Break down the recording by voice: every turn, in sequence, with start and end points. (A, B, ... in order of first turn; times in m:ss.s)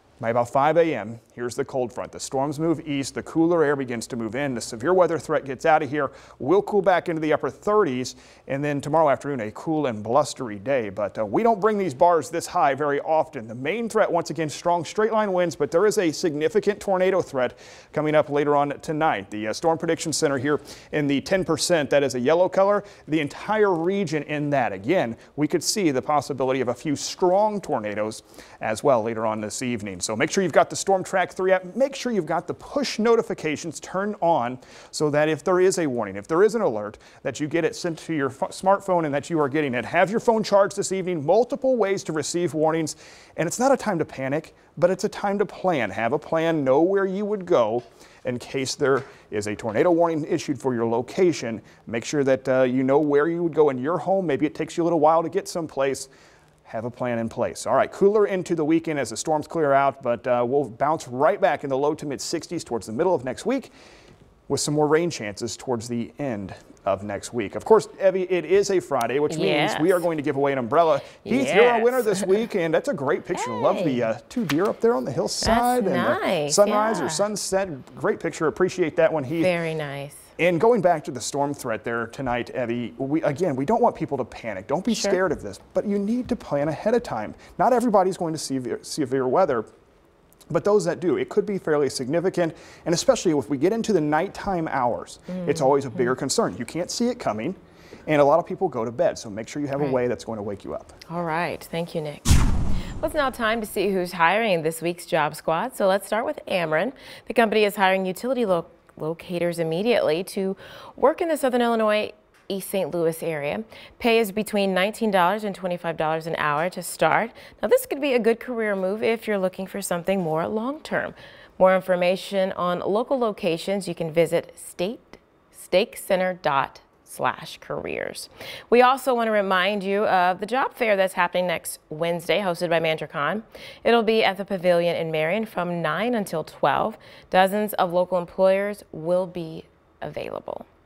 0:00.2-0:56.1 A
0:56.7-1:03.7 A
1:04.5-1:19.5 A
1:09.3-1:10.1 B
1:11.3-1:12.2 B
1:13.4-1:14.1 B
1:15.4-1:17.3 B
1:19.4-1:20.3 B
1:20.4-1:29.7 A
1:24.9-1:25.2 B
1:30.5-1:41.0 A
1:41.1-1:42.2 B
1:43.0-2:20.7 B